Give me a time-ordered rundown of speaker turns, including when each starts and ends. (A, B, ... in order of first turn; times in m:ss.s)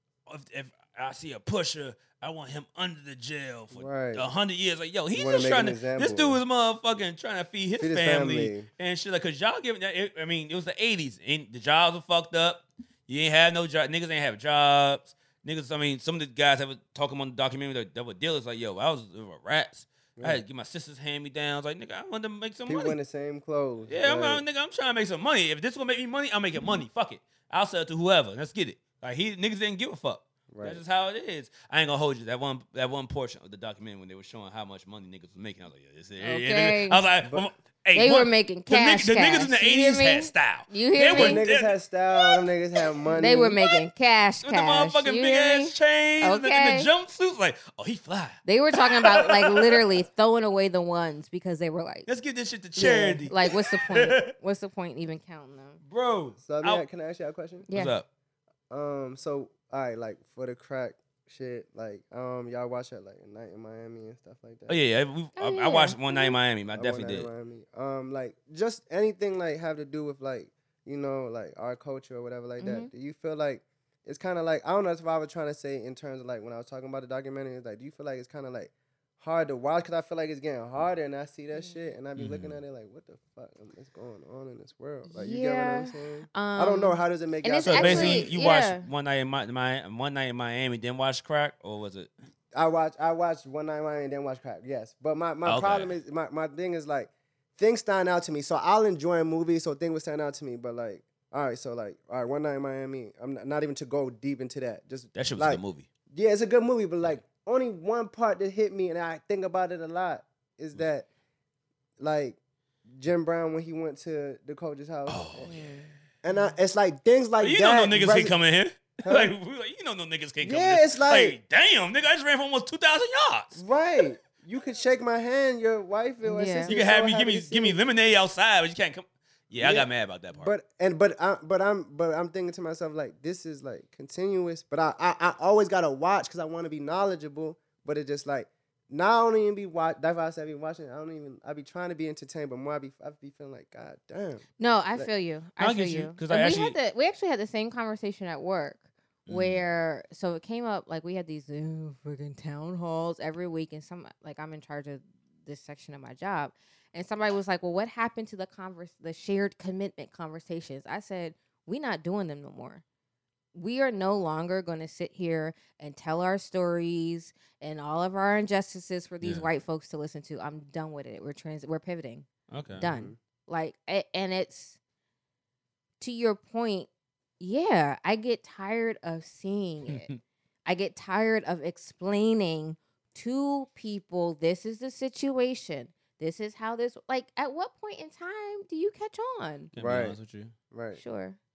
0:00.3-0:23.0 A
0:03.8-0:04.3 B
0:05.1-0:06.4 B
0:07.8-0:08.7 B
0:20.2-0:20.4 B
0:22.7-0:24.4 B
0:23.9-0:42.4 A
0:30.5-0:30.8 B
0:36.2-0:37.0 C
0:37.2-0:37.5 B
0:38.0-0:41.4 C
0:41.1-0:43.6 B
0:43.2-0:46.9 C
0:44.4-0:49.8 A
0:48.4-0:52.1 C
0:52.1-0:54.3 A
0:52.8-0:55.8 C
0:55.8-0:56.8 A
0:56.4-0:57.7 B
0:57.7-0:58.0 C
0:57.7-0:58.1 A
0:58.7-1:04.8 B
1:04.7-1:07.3 A
1:05.4-1:06.4 C
1:06.7-1:28.3 B
1:12.6-1:12.9 C
1:21.5-1:21.9 C
1:22.2-1:22.6 A
1:25.1-1:28.9 C
1:27.7-1:32.1 A
1:32.5-1:45.6 B
1:35.4-1:36.0 A
1:45.2-1:45.9 A
1:46.1-1:51.1 B
1:52.0-1:52.4 B
1:52.9-1:55.5 B
1:55.1-1:55.5 A
1:55.4-1:55.9 C
1:56.2-1:58.4 B
1:57.4-2:03.6 A
1:59.0-1:59.3 B
2:00.4-2:01.4 B
2:03.6-2:07.8 B
2:06.2-2:06.7 C
2:06.7-2:10.5 A
2:09.6-2:25.1 B
2:24.6-2:42.8 C
2:25.6-2:26.8 A
2:29.3-2:29.6 A
2:43.5-2:52.3 C
2:52.5-2:52.9 A
2:52.8-2:54.8 C
2:52.8-2:53.2 B
2:56.0-2:56.9 C
2:57.4-3:00.1 C
2:59.9-3:00.2 A
3:00.6-3:09.7 C
3:09.7-3:10.5 A
3:09.8-3:10.2 B
3:10.7-3:11.0 B
3:11.0-3:11.4 C